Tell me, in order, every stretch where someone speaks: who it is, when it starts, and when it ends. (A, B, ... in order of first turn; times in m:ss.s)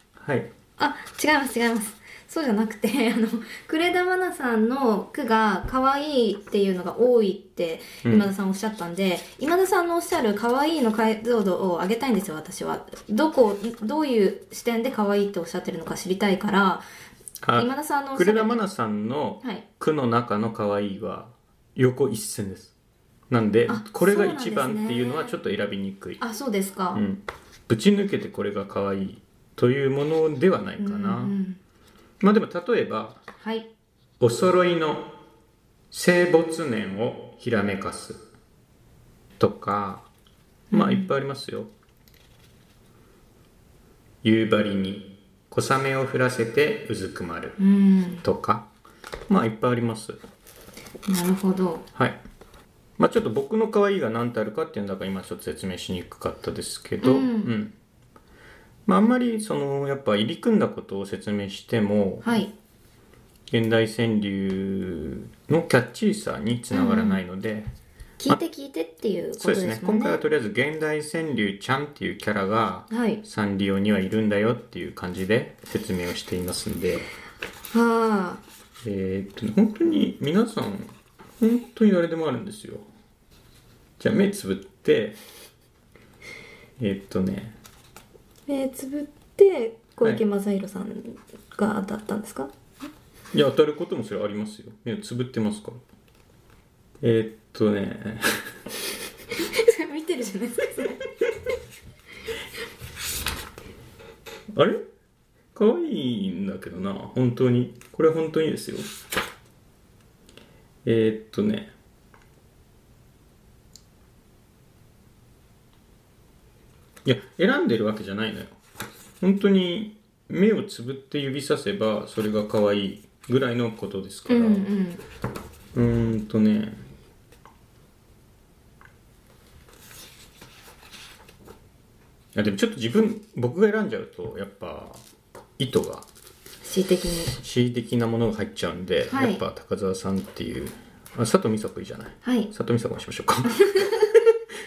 0:00.2-0:00.5 A
0:00.8-0:16.8 B
0:08.0-0:08.3 A
0:17.4-0:22.7 A
0:17.5-0:18.6 B
0:23.3-0:26.2 A
0:23.7-0:25.3 B
0:26.2-0:27.0 B
0:26.9-0:31.3 A
0:30.8-0:31.6 B
0:32.2-0:33.2 A
0:33.4-0:33.7 B
0:34.2-0:35.1 A
0:35.9-0:38.2 A
0:39.4-0:40.1 A
0:40.7-0:41.1 B
0:40.7-0:41.7 A
0:44.2-0:47.6 A
0:47.6-0:48.2 B
0:48.2-0:48.7 A
0:49.3-0:50.2 A
0:51.1-0:51.8 B
0:51.9-0:52.2 A
0:53.0-0:57.7 A
0:57.0-0:57.5 B
0:58.8-1:02.4 A
1:02.2-1:02.5 B
1:03.5-1:07.7 A
1:06.7-1:07.2 B
1:08.2-1:10.2 B
1:09.4-1:17.1 A
1:12.9-1:13.2 B
1:17.7-1:18.4 B
1:18.8-1:22.8 A
1:24.0-1:25.2 A
1:26.8-1:27.6 A
1:28.5-1:32.5 B
1:33.3-1:35.8 A
1:37.0-1:38.5 A
1:39.4-1:41.0 B
1:44.5-1:44.8 A
1:45.5-1:48.9 A
1:50.8-1:51.7 A
1:57.0-1:58.6 A
1:59.2-2:04.7 A
2:04.3-2:05.0 B
2:05.7-2:06.8 A
2:12.3-2:15.0 A
2:15.6-2:16.1 A
2:16.6-2:17.3 B
2:17.3-2:24.3 A
2:19.1-2:19.4 B
2:22.2-2:22.5 B
2:23.5-2:24.1 B